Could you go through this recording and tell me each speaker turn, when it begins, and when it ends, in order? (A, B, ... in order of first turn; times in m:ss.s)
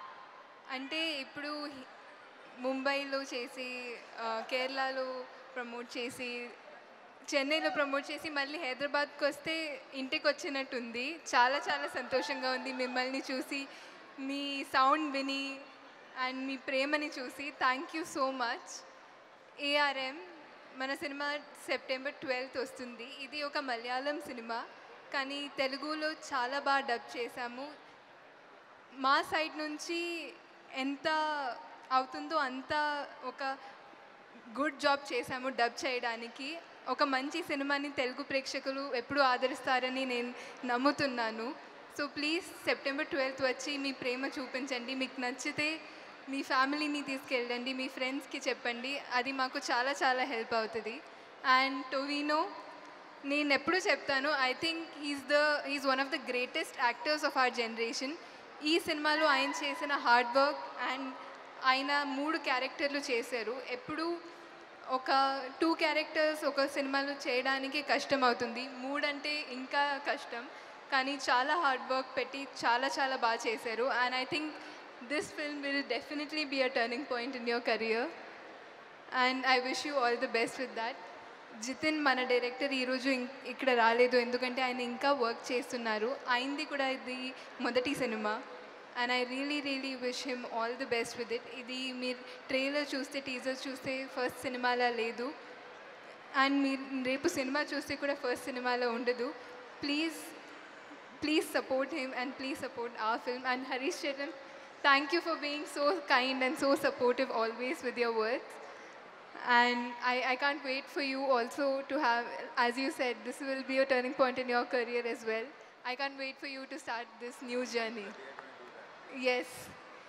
0:00.7-0:01.9 A
0:02.6-0:06.6 A
0:07.3-0:13.7 A
0:14.2-0:18.8 A
0:19.6-0:27.7 A
0:29.0-0:33.5 A
0:34.5-0:45.8 A
0:46.3-0:52.5 A
0:53.2-1:04.1 A
1:04.9-1:18.1 A
1:19.1-1:21.0 A
1:21.6-1:28.4 A
1:29.0-1:35.3 A
1:36.3-1:40.4 A
1:41.2-1:48.6 A
1:49.4-1:58.3 A
1:59.1-1:59.8 A